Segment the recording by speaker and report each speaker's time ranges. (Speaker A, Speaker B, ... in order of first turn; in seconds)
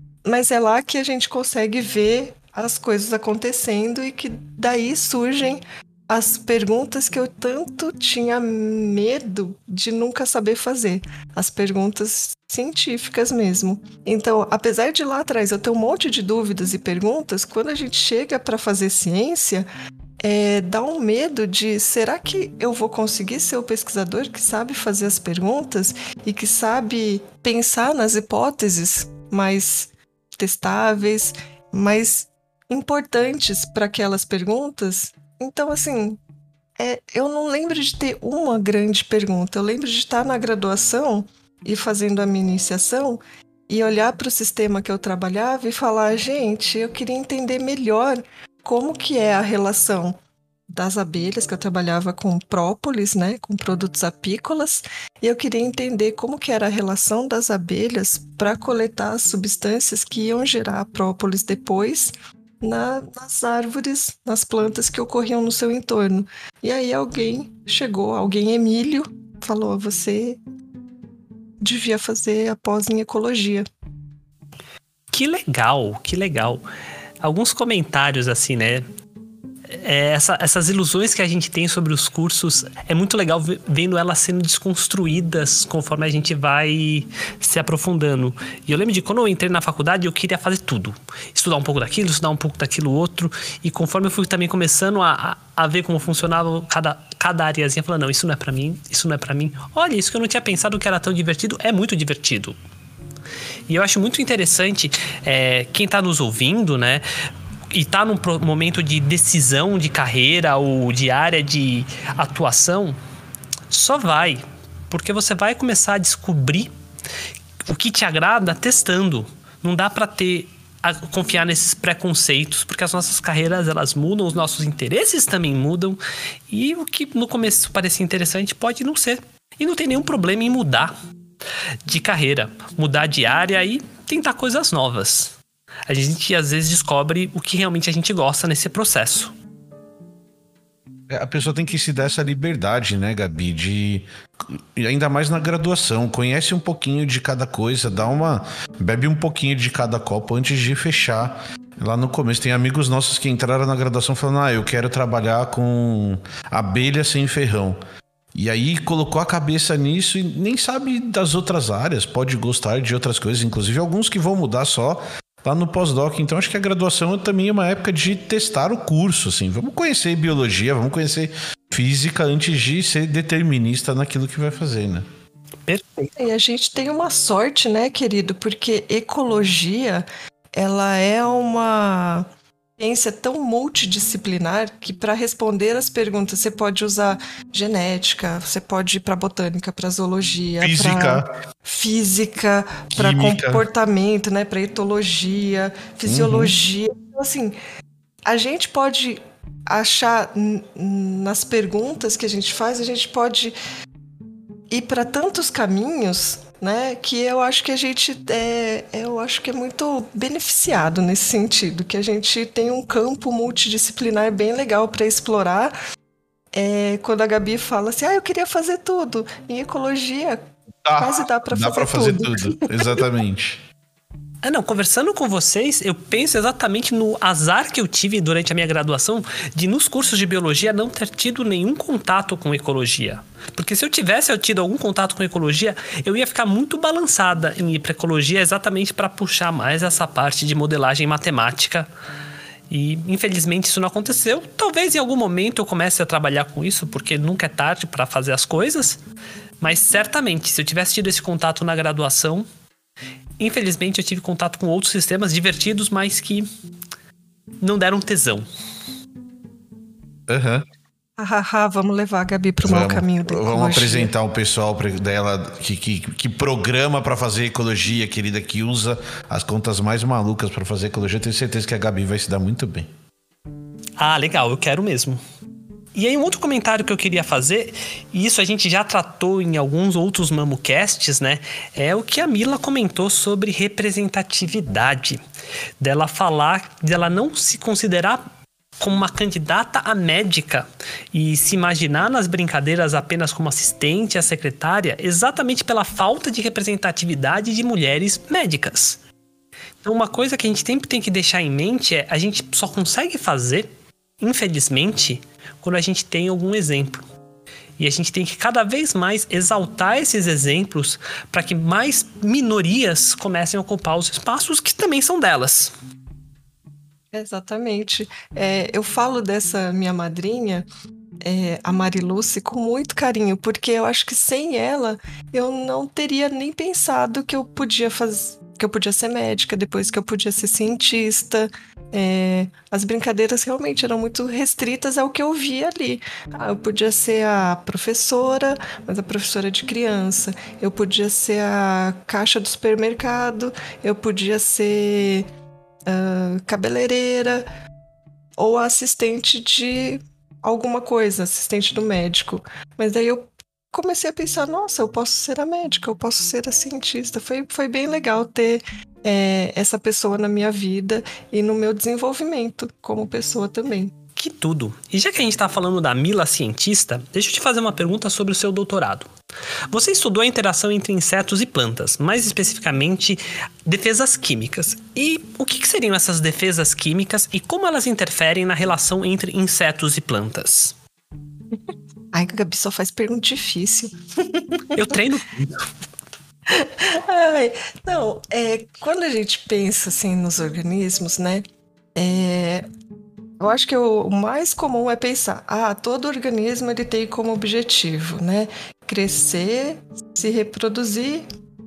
Speaker A: 0.2-19.7, 20.2-36.2, 36.8-50.1, 50.7-70.4, 71.6-73.7, 176.2-182.2, 182.8-197.6, 198.2-203.6, 204.7-215.7, 216.5-220.4, 221.0-223.1, 261.2-264.1, 317.1-320.7, 321.2-345.3, 345.9-347.5, 348.4-363.9, 382.1-384.9, 386.5-391.4, 391.9-392.6, 393.4-401.2
Speaker B: 75.1-76.6, 77.2-78.8, 79.7-102.5, 103.7-107.0, 107.7-113.0, 113.7-116.7, 117.7-130.9, 131.8-135.3, 135.9-139.3, 175.7-176.1, 224.4-241.9, 242.7-249.0, 249.6-252.4, 253.4-256.5, 257.6-258.4, 274.0-275.2, 275.9-285.2, 285.8-288.2, 288.8-299.0, 299.8-303.7, 304.2-307.0, 307.8-315.7, 364.1-369.1, 369.7-380.8, 384.7-385.5
Speaker C: 141.1-157.8, 158.3-175.1, 190.6-191.3, 192.9-193.6, 196.1-196.5, 220.8-223.6, 260.3-260.6, 262.6-272.9